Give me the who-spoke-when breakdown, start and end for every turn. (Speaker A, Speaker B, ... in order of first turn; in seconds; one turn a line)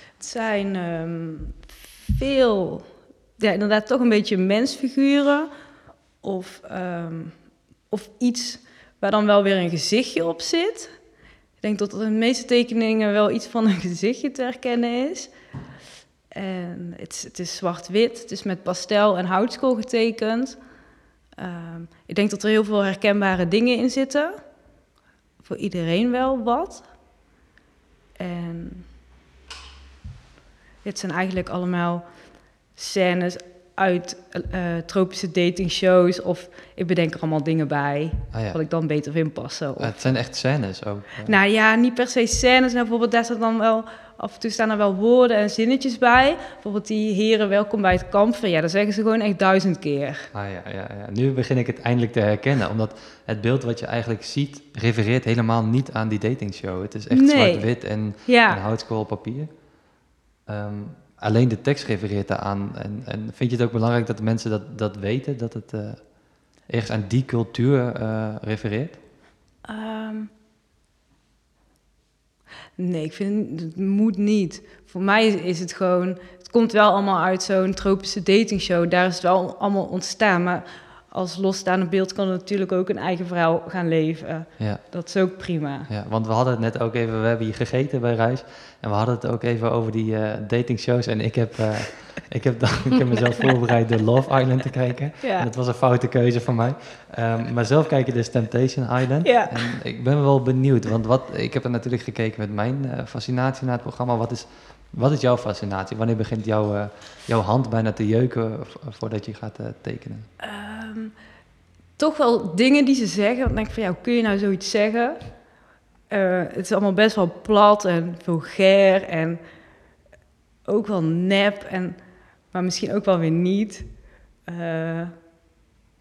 Speaker A: 0.2-2.9
Speaker A: 3.4-5.5
Speaker A: 6.2-7.4
Speaker A: 7.9-10.9
Speaker A: 11.6-15.3
Speaker A: 16.3-20.6
Speaker A: 21.4-24.4
Speaker A: 25.4-26.9
Speaker A: 28.2-28.9
Speaker A: 30.8-40.0
Speaker B: 38.3-38.6
Speaker B: 39.8-41.4
Speaker A: 41.2-50.3
Speaker B: 50.3-59.6
Speaker A: 57.1-58.6
Speaker B: 60.5-69.0
Speaker A: 69.6-70.3
Speaker A: 72.8-85.9
Speaker B: 84.6-84.8
Speaker B: 85.9-110.3
Speaker A: 95.2-95.5
Speaker A: 99.2-99.7
Speaker A: 110.4-111.1
Speaker A: 112.0-115.4
Speaker A: 116.1-119.4
Speaker A: 120.7-125.1